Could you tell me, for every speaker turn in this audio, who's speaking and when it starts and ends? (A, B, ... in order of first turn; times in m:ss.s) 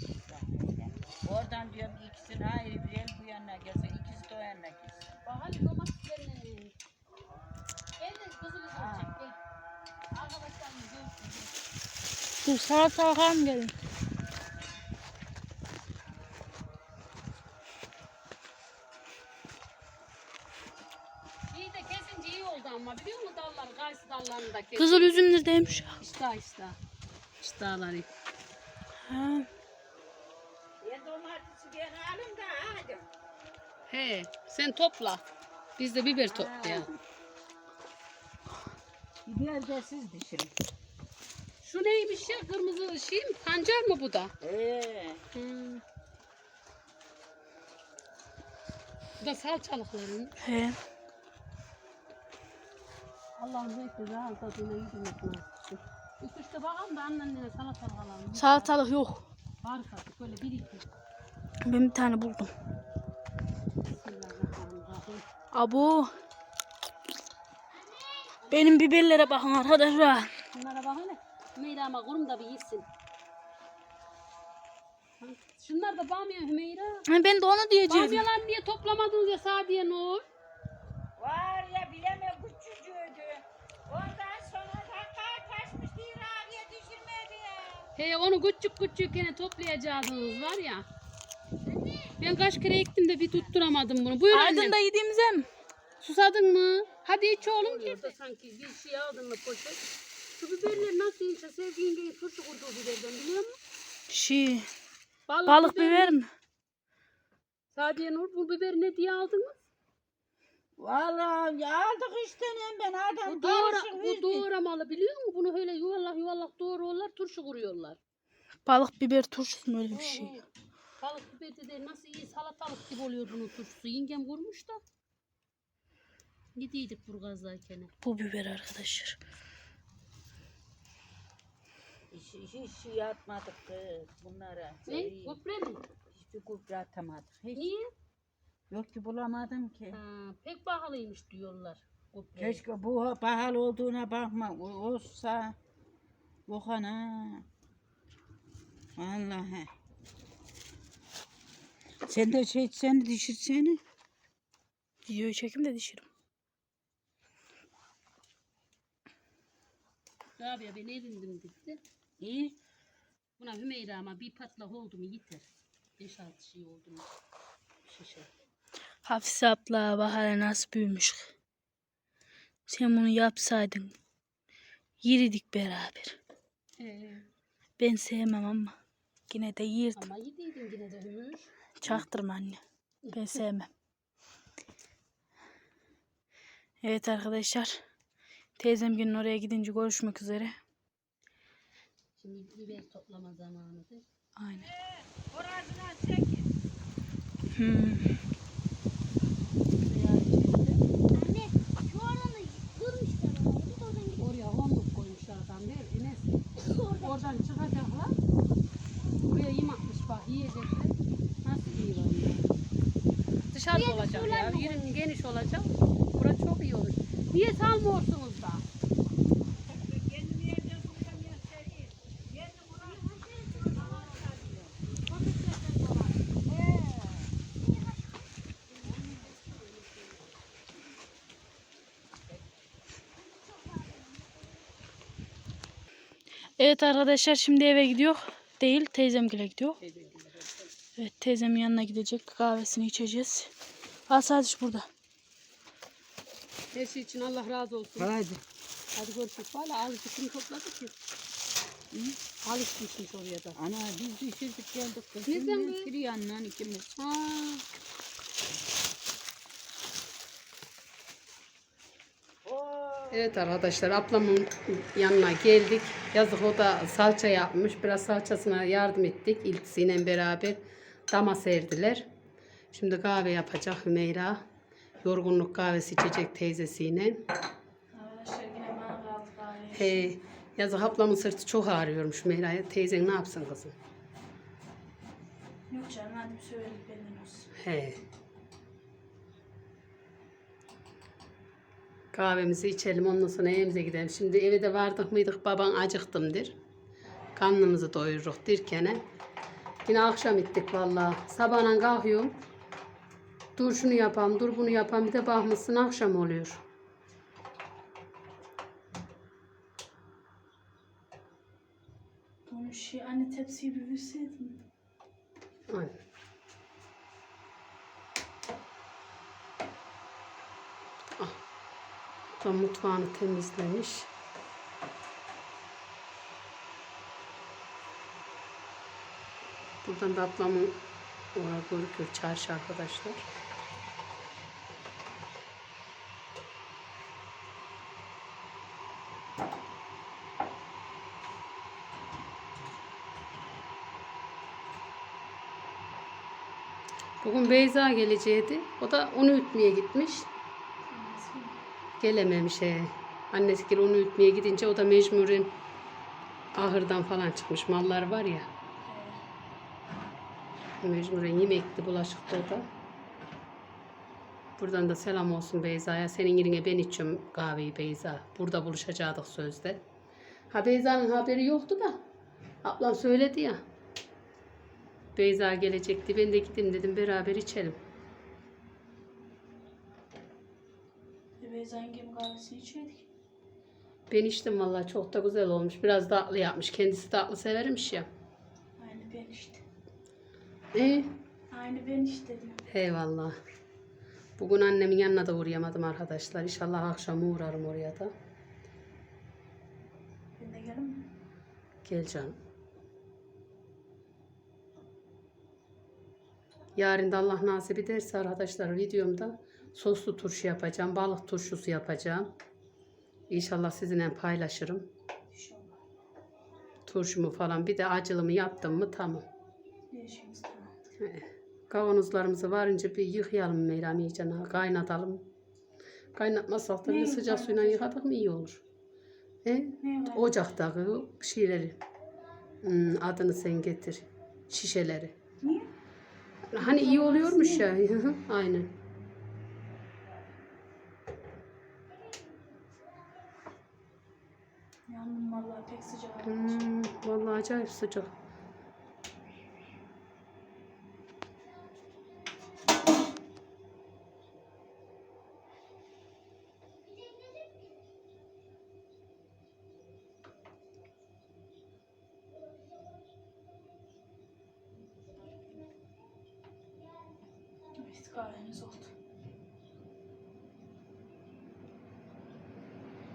0:00.3-0:05.2 A
0:05.2-0:06.8 B
0:08.0-0:09.4 B
0:08.7-0:09.1 A
0:10.1-0:11.6 B
0:12.4-0:13.7 C
0:21.5-0:25.3 B
0:24.8-0:26.0 C
0:26.0-0:26.8 B
0:27.4-0:28.1 B
0:29.0-0:29.5 C
0:30.8-0:33.1 A
0:33.9-0:35.2 B
0:35.8-0:36.9 B
0:36.3-0:37.0 A
0:39.3-0:40.5 A
0:41.6-0:44.3 B
0:44.4-0:45.2 A
0:45.3-0:45.8 B
0:49.2-0:50.4 B
0:50.4-0:50.8 C
0:53.4-0:58.8 B
0:58.4-0:59.2 C
0:59.6-1:00.9 B
1:01.6-1:02.5 C
1:03.9-1:05.2 B
1:05.5-1:06.1 C
1:07.9-1:08.4 D
1:08.4-1:08.8 B
1:08.5-1:10.3 C
1:10.5-1:12.9 B
1:15.2-1:17.0 B
1:17.1-1:18.2 C
1:17.9-1:20.2 B
1:21.2-1:27.9 A
1:28.0-1:30.8 B
1:31.7-1:32.1 A
1:32.2-1:34.8 B
1:34.3-1:35.5 C
1:36.0-1:39.8 B
1:40.4-1:43.6 B
1:44.1-1:44.7 C
1:45.3-1:46.2 B
1:45.4-1:46.3 C
1:47.8-1:49.6 B
1:50.8-1:54.5 A
1:53.3-1:58.0 B
1:58.7-2:00.4 C
1:59.9-2:00.4 B
2:01.0-2:04.8 B
2:06.6-2:07.9 B
2:08.0-2:09.2 C
2:12.1-2:15.4 A
2:14.9-2:15.8 B
2:16.1-2:17.7 A
2:17.6-2:17.9 B
2:18.7-2:20.0 A
2:19.9-2:22.6 B
2:22.4-2:25.6 A
2:26.5-2:27.5 A
2:29.0-2:29.7 A
2:32.1-2:33.8 A
2:35.1-2:36.1 C
2:40.4-2:41.8 B
2:42.2-2:42.6 A
2:43.4-2:45.5 B
2:46.0-2:47.1 B
2:47.9-2:48.3 B
2:49.0-2:51.3 C
2:52.7-2:54.0 C
2:55.0-2:56.2 C
2:56.8-2:57.3 B
2:57.8-2:58.8 C
2:59.3-3:00.1 C
3:00.0-3:01.5 B
3:01.8-3:02.6 C
3:03.1-3:03.7 C
3:06.8-3:07.8 C
3:08.6-3:10.6 C
3:12.2-3:14.0 B
3:14.4-3:14.7 C
3:14.6-3:16.5 A
3:17.5-3:18.1 C
3:19.8-3:20.8 C
3:21.1-3:24.4 D
3:24.2-3:28.1 B
3:26.5-3:27.4 D
3:29.2-3:32.5 B
3:33.5-3:38.6 B
3:33.7-3:35.0 D
3:39.6-3:44.8 A
3:42.9-3:44.0 D
3:43.8-3:44.2 B
3:44.8-3:46.3 B
3:46.5-3:47.4 A
3:47.6-3:48.3 D
3:48.7-3:50.4 B
3:48.9-3:49.3 A
3:53.2-3:54.7 D
3:56.6-3:59.8 C
3:59.8-4:00.7 B
4:01.0-4:03.5 C
4:04.1-4:04.9 C
4:06.7-4:08.1 B
4:08.0-4:08.4 A
4:09.0-4:10.9 B
4:11.9-4:12.2 A
4:12.4-4:13.6 B
4:13.6-4:16.9 A
4:15.3-4:15.9 B
4:17.0-4:17.6 B
4:22.4-4:23.4 A
4:23.1-4:32.1 B
4:32.7-4:34.4 B
4:35.0-4:37.2 B
4:37.9-4:40.1 C
4:39.7-4:43.7 B
4:45.7-4:47.5 C
4:47.6-4:48.0 B
4:52.1-4:56.6 B
4:57.4-4:59.0 B
4:59.8-5:02.3 B
5:03.6-5:06.6 B
5:12.5-5:14.6 C
5:15.7-5:16.0 B
5:22.4-5:24.1 B
5:29.8-5:30.8 B
5:31.4-5:33.2 B
5:47.2-5:50.3 B
5:50.9-5:51.6 C
5:52.0-5:55.5 B
5:56.6-5:58.5 B
5:58.8-5:59.2 C
6:00.8-6:02.7 B
6:04.6-6:09.8 B
6:10.5-6:12.0 B
6:12.6-6:13.6 B
6:15.2-6:17.8 B
6:21.4-6:23.1 C
6:24.1-6:28.1 B
6:28.8-6:29.6 C
6:30.7-6:31.2 B
6:31.5-6:32.6 C
6:32.7-6:33.3 B
6:34.4-6:38.1 B
6:40.4-6:41.1 C
6:41.8-6:42.4 B
6:46.8-6:52.3 B
6:53.3-6:54.9 B
6:55.3-6:55.8 C
6:56.8-6:59.3 B
6:59.9-7:00.9 C
7:01.0-7:05.2 B
7:06.2-7:08.6 B
7:06.8-7:07.8 C
7:09.4-7:11.8 B
7:09.8-7:10.4 C
7:12.6-7:15.2 B
7:15.4-7:15.7 C
7:16.5-7:18.7 B
7:16.6-7:17.7 C
7:24.9-7:26.7 C
7:26.2-7:28.1 B
7:47.8-7:48.9 C